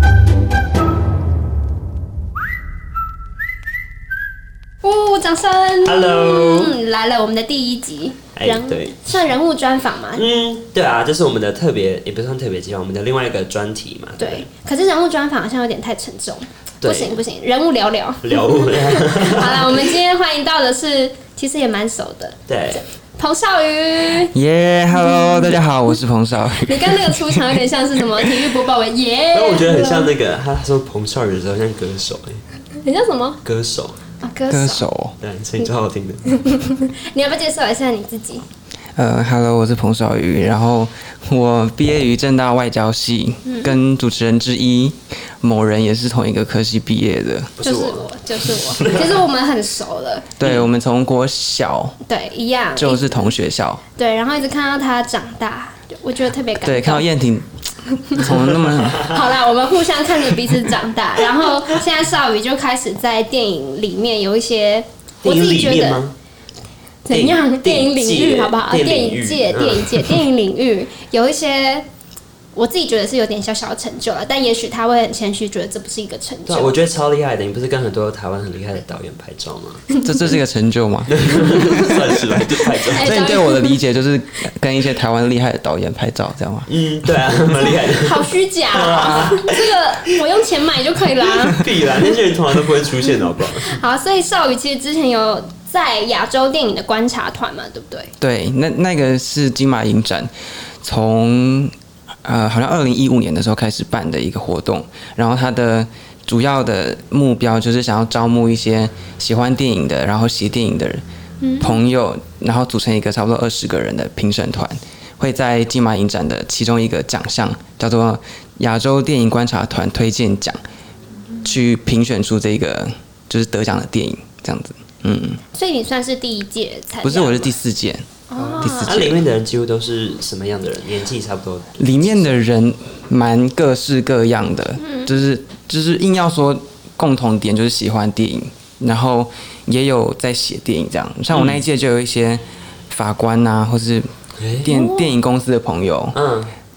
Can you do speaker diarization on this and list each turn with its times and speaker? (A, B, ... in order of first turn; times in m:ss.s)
0:04.8-0:10.2 A
0:05.8-0:06.8 B
0:08.4-0:09.0 B
0:10.2-0:14.5 B
0:14.2-0:24.3 A
0:16.8-0:17.2 B
0:18.2-0:19.9 B
0:22.5-0:22.8 B
0:24.2-0:27.6 C
0:24.9-0:25.6 A
0:26.6-0:30.1 A
0:28.2-0:28.5 C
0:29.3-0:32.4 B
0:32.8-0:33.4 A
0:33.4-0:34.0 B
0:34.2-0:34.9 A
0:34.5-0:35.2 C
0:35.2-0:36.4 B
0:36.3-0:38.4 A
0:39.0-0:47.5 C
0:43.4-0:43.8 A
0:47.6-0:49.2 B
0:47.6-0:50.3 A
0:50.4-0:52.0 C
0:50.4-0:50.7 B
0:52.1-0:53.4 A
0:52.8-0:53.8 C
0:54.0-0:57.0 A
0:56.6-0:57.5 C
0:58.1-0:59.1 C
0:58.2-0:59.4 B
0:59.0-1:06.0 A
1:05.2-1:06.1 B
1:07.0-1:11.8 A
1:07.1-1:10.2 B
1:12.6-1:16.8 A
1:16.5-1:20.4 B
1:20.0-1:27.5 C
1:21.1-1:23.3 B
1:21.4-1:21.9 A
1:22.8-1:23.8 A
1:26.7-1:30.2 B
1:27.8-1:32.1 A
1:28.8-1:29.4 C
1:31.2-1:33.8 B
1:33.0-1:38.1 A
1:38.2-1:40.3 C
1:40.8-1:41.7 C
1:42.2-1:51.0 C
1:51.4-1:51.8 A
1:51.6-2:00.6 C
2:01.4-2:05.4 C
2:05.5-2:07.6 A
2:07.0-2:08.0 C
2:08.3-2:09.0 A
2:08.5-2:12.3 B
2:08.6-2:09.2 C
2:11.8-2:24.1 C
2:14.8-2:15.1 A
2:21.3-2:21.6 B
2:24.4-2:24.7 B
2:24.6-2:26.2 C
2:24.7-2:25.1 A
2:26.1-2:26.5 B